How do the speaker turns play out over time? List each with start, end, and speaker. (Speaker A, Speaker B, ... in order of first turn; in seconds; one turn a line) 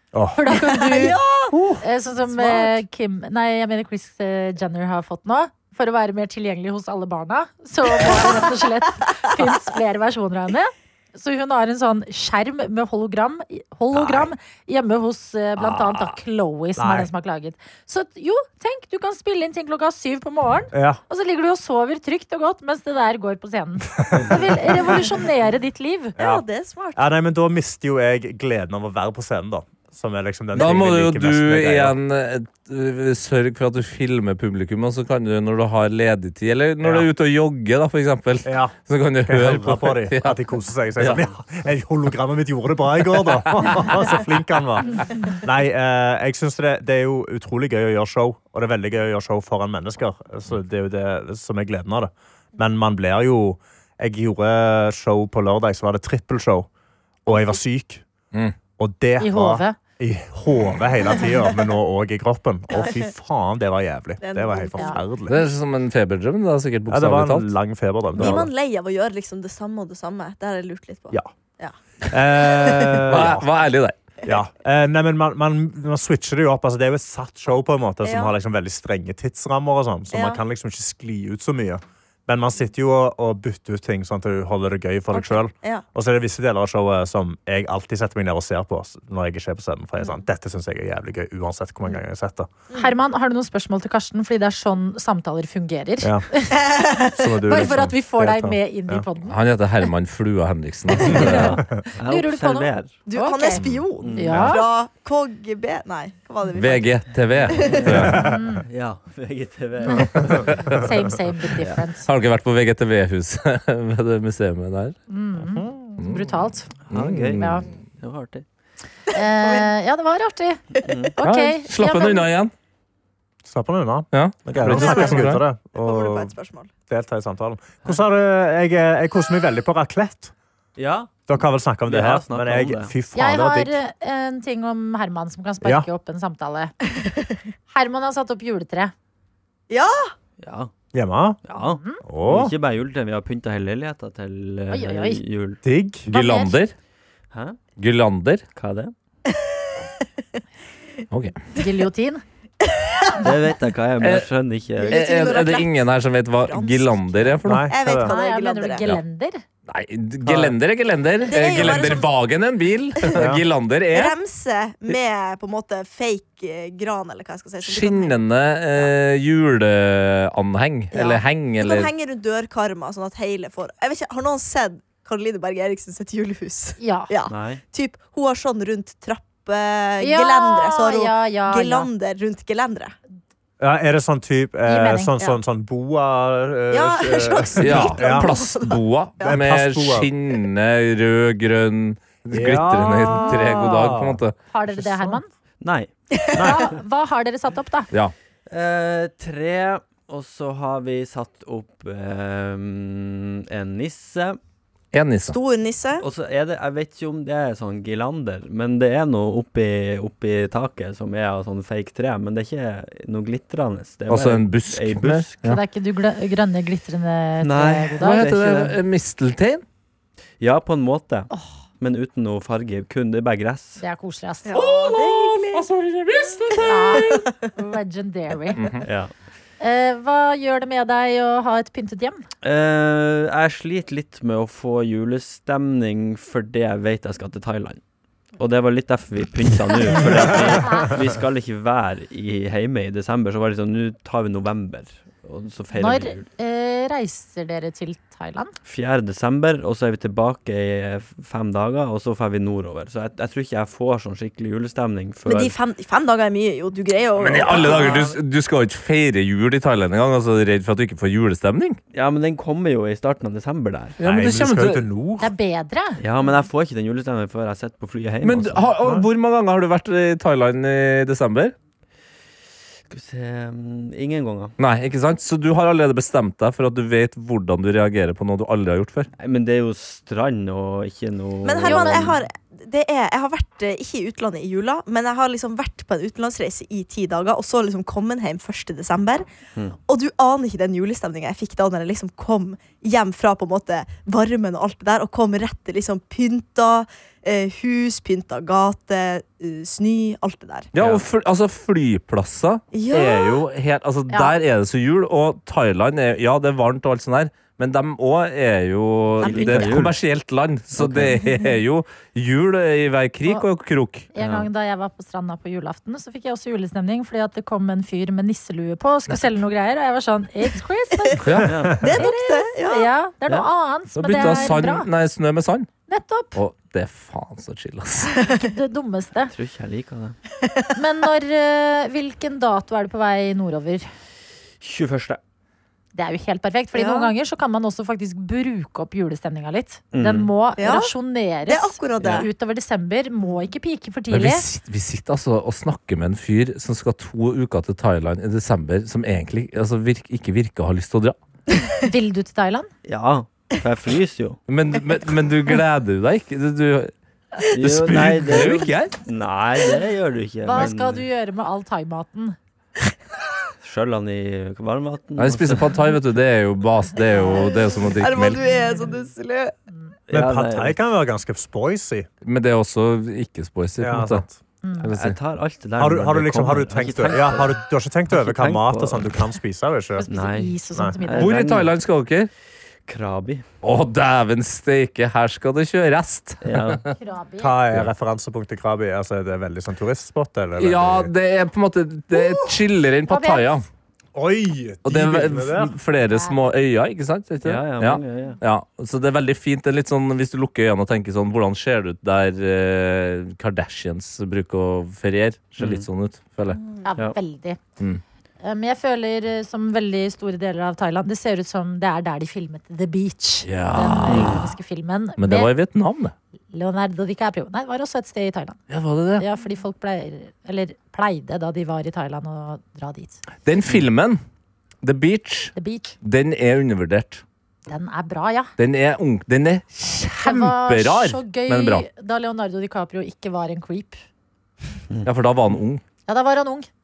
Speaker A: 0.1-0.4
Speaker B: 0.3-1.2
Speaker C: 0.5-1.5
Speaker D: 1.5-1.8
Speaker B: 1.8-26.1
Speaker C: 2.4-2.7
Speaker D: 15.6-16.1
Speaker A: 16.8-17.1
Speaker A: 20.7-21.0
Speaker A: 24.1-25.0
Speaker C: 26.2-27.1
Speaker A: 26.2-31.9
Speaker D: 30.5-40.4
Speaker A: 36.8-37.1
Speaker A: 38.4-56.7
Speaker D: 43.5-44.0
Speaker A: 57.2-58.0
Speaker A: 58.8-65.5
Speaker B: 59.2-59.8
Speaker C: 62.7-63.1
Speaker C: 64.2-65.0
Speaker D: 65.3-67.5
Speaker A: 66.9-68.5
Speaker C: 68.2-73.0
Speaker A: 72.1-73.5
Speaker D: 73.1-73.9
Speaker A: 74.2-92.5
Speaker C: 78.0-78.3
Speaker C: 80.1-80.4
Speaker C: 85.1-85.8
Speaker B: 92.7-96.5
Speaker A: 96.0-96.3
Speaker C: 96.5-97.6
Speaker A: 97.1-99.0
Speaker B: 97.5-99.4
Speaker D: 99.2-101.6
Speaker B: 101.1-103.6
Speaker E: 101.2-103.0
Speaker C: 103.1-107.0
Speaker A: 103.6-104.5
Speaker E: 104.0-104.5
Speaker B: 104.1-104.6
Speaker D: 106.6-108.2
Speaker E: 107.4-110.8
Speaker C: 107.6-107.9
Speaker B: 108.1-108.6
Speaker B: 109.8-112.1
Speaker D: 110.5-110.8
Speaker E: 111.6-111.8
Speaker D: 112.0-115.0
Speaker B: 115.1-116.7
Speaker A: 115.4-115.7
Speaker D: 116.0-116.3
Speaker E: 116.9-118.4
Speaker D: 116.9-117.7
Speaker B: 117.4-117.7
Speaker B: 119.1-120.6
Speaker C: 119.2-119.7
Speaker E: 120.8-121.1
Speaker B: 121.2-122.3
Speaker D: 121.2-122.5
Speaker A: 123.4-126.3
Speaker D: 124.1-125.4
Speaker C: 124.6-126.7
Speaker A: 126.9-130.3
Speaker E: 130.8-131.1
Speaker A: 131.3-133.8
Speaker E: 131.9-132.9
Speaker B: 133.1-136.7
Speaker A: 135.6-135.9
Speaker B: 137.7-138.9
Speaker C: 139.7-140.1
Speaker E: 140.4-140.7
Speaker A: 140.9-141.4
Speaker E: 141.4-145.6
Speaker B: 141.5-142.0
Speaker A: 142.0-142.5
Speaker B: 144.7-145.2
Speaker A: 145.6-146.1
Speaker D: 146.1-146.7
Speaker B: 146.1-146.6
Speaker E: 147.3-147.6
Speaker D: 147.8-148.4
Speaker E: 148.6-148.9
Speaker C: 149.2-149.8
Speaker D: 151.1-151.4
Speaker B: 151.5-152.2
Speaker C: 152.6-153.2
Speaker E: 153.2-155.0
Speaker D: 154.0-154.3
Speaker C: 154.8-158.9
Speaker D: 154.9-157.7
Speaker A: 157.4-158.1
Speaker B: 158.0-159.4
Speaker D: 159.7-164.2
Speaker C: 161.2-162.1
Speaker A: 163.1-163.4
Speaker C: 163.9-168.2
Speaker D: 167.6-171.9
Speaker C: 170.9-182.9
Speaker B: 176.8-177.1
Speaker E: 177.3-177.6
Speaker B: 180.0-181.9
Speaker A: 183.6-188.3
Speaker B: 184.7-185.2
Speaker C: 186.7-189.4
Speaker D: 187.6-194.3
Speaker A: 189.2-190.1
Speaker A: 192.3-194.2
Speaker B: 194.5-195.3
Speaker A: 194.7-195.2
Speaker E: 195.6-195.9
Speaker C: 196.1-196.6
Speaker B: 196.4-197.9
Speaker A: 196.4-196.6
Speaker E: 198.5-204.4
Speaker D: 204.9-205.4
Speaker C: 205.2-206.0
Speaker E: 206.0-215.4
Speaker D: 214.1-215.6
Speaker B: 215.4-218.2
Speaker E: 217.4-218.8
Speaker D: 218.0-219.6
Speaker E: 220.4-223.8
Speaker B: 221.3-221.6
Speaker B: 223.8-224.7
Speaker C: 224.4-225.7
Speaker D: 224.6-227.2
Speaker C: 226.2-227.5
Speaker B: 226.6-228.7
Speaker D: 228.6-228.8
Speaker E: 228.8-229.1
Speaker B: 229.6-232.2
Speaker E: 232.4-237.8
Speaker E: 238.4-246.2
Speaker B: 240.5-240.9
Speaker B: 245.7-248.5
Speaker E: 248.7-255.5
Speaker C: 255.2-258.2
Speaker D: 257.2-261.8
Speaker E: 261.9-264.0
Speaker D: 264.0-264.8
Speaker A: 264.0-265.3
Speaker B: 265.2-266.0
Speaker E: 266.0-268.7
Speaker D: 268.2-271.5
Speaker E: 272.9-274.5
Speaker D: 274.6-279.1
Speaker E: 279.2-282.2
Speaker C: 281.4-289.3
Speaker B: 281.6-282.1
Speaker C: 289.9-300.7
Speaker D: 300.7-314.1
Speaker E: 300.8-301.0
Speaker C: 302.7-303.4
Speaker E: 309.2-310.0
Speaker E: 310.8-311.2
Speaker B: 314.1-324.9
Speaker E: 314.2-314.5
Speaker D: 319.1-319.4
Speaker D: 321.2-321.5
Speaker E: 321.4-321.9
Speaker C: 321.8-322.9
Speaker D: 324.0-325.7
Speaker B: 325.9-326.4
Speaker D: 326.3-328.1
Speaker B: 328.3-329.3
Speaker E: 329.3-330.1
Speaker C: 330.4-330.7
Speaker B: 330.7-333.9
Speaker E: 334.6-335.2
Speaker B: 335.9-344.4
Speaker C: 336.7-337.1
Speaker E: 339.9-340.3
Speaker C: 340.6-340.9
Speaker C: 341.5-342.3
Speaker E: 342.0-342.2
Speaker D: 344.1-351.1
Speaker B: 351.8-352.7
Speaker E: 352.8-354.4
Speaker D: 354.5-358.9
Speaker E: 357.5-361.0
Speaker B: 360.4-362.4
Speaker E: 363.6-365.8
Speaker D: 365.2-368.4
Speaker B: 367.1-367.6
Speaker C: 367.2-369.5
Speaker B: 368.4-368.9
Speaker E: 370.1-370.8
Speaker A: 370.1-372.1
Speaker D: 372.2-374.2
Speaker A: 373.8-374.4
Speaker B: 374.6-374.9
Speaker E: 374.8-377.6
Speaker D: 374.8-375.2
Speaker A: 375.8-380.0
Speaker E: 378.1-379.1
Speaker B: 380.0-381.3
Speaker E: 380.1-381.7
Speaker D: 381.2-382.3
Speaker E: 382.9-383.4
Speaker D: 383.6-386.9
Speaker E: 386.4-386.8
Speaker B: 387.0-387.6
Speaker A: 387.4-391.1
Speaker D: 390.6-393.6
Speaker B: 393.1-393.6
Speaker A: 394.1-395.7
Speaker D: 394.8-406.6
Speaker B: 396.1-396.5
Speaker E: 397.4-398.4
Speaker E: 405.6-405.9
Speaker C: 406.5-406.9
Speaker B: 406.8-407.6
Speaker B: 408.4-415.5
Speaker D: 413.4-414.4
Speaker E: 414.1-414.5
Speaker D: 415.2-416.1
Speaker B: 416.5-418.6
Speaker D: 418.7-419.2
Speaker B: 419.2-423.2
Speaker D: 423.4-424.2
Speaker D: 424.8-427.2
Speaker B: 425.5-425.9
Speaker B: 427.7-428.5
Speaker D: 428.6-431.8
Speaker B: 429.8-434.0
Speaker D: 435.0-435.8
Speaker B: 436.1-436.7